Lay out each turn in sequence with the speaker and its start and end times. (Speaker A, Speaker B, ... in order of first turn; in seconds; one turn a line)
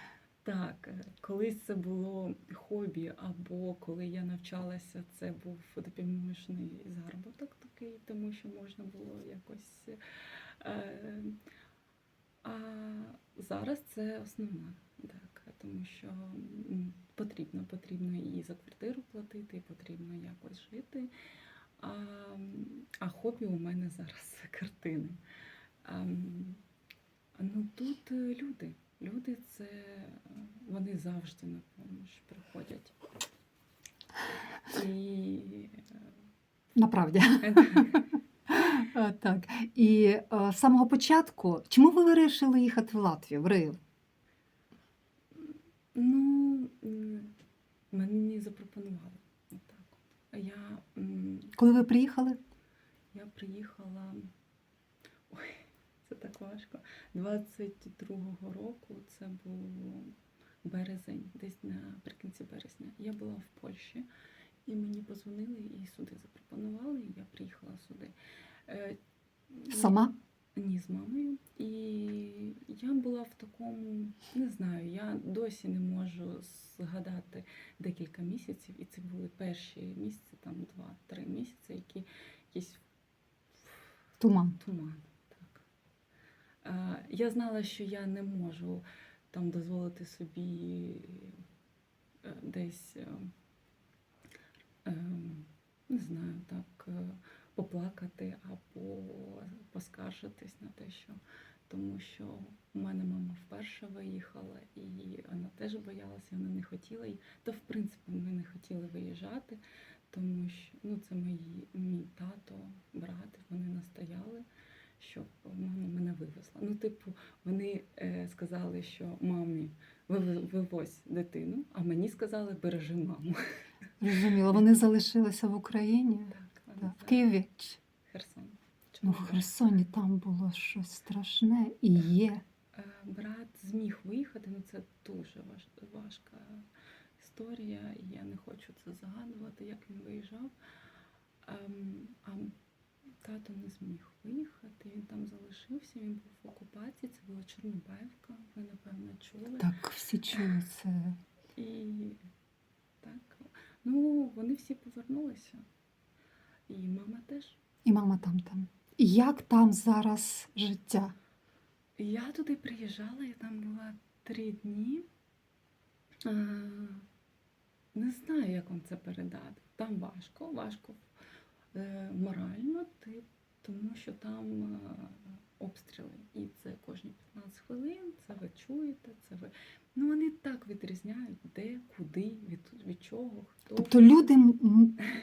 Speaker A: 0.4-11.4
Speaker A: 12.4-21.1
Speaker A: 21.8-25.2
Speaker A: 25.8-26.6
Speaker A: 27.4-33.0
Speaker A: 34.7-36.0
Speaker B: 36.8-43.8
Speaker A: 37.4-38.0
Speaker A: 45.3-47.3
Speaker A: 47.9-51.5
Speaker B: 51.6-52.4
Speaker A: 53.1-54.3
Speaker A: 55.3-64.0
Speaker A: 64.7-68.1
Speaker A: 68.7-69.0
Speaker A: 69.5-70.0
Speaker B: 69.7-70.1
Speaker A: 70.5-82.8
Speaker A: 83.5-83.8
Speaker B: 84.2-84.6
Speaker A: 84.6-85.6
Speaker A: 86.6-91.4
Speaker A: 92.2-93.3
Speaker A: 94.8-114.4
Speaker A: 115.0-123.4
Speaker B: 124.0-127.8
Speaker A: 126.3-127.2
Speaker A: 128.0-129.5
Speaker B: 129.0-132.4
Speaker A: 132.7-140.5
Speaker A: 141.4-142.5
Speaker A: 143.2-149.7
Speaker B: 149.6-151.2
Speaker A: 151.6-152.2
Speaker A: 153.0-155.7
Speaker A: 156.7-157.6
Speaker B: 157.8-161.1
Speaker A: 162.0-165.1
Speaker A: 166.2-167.1
Speaker A: 167.9-171.1
Speaker A: 171.7-184.0
Speaker B: 183.8-185.0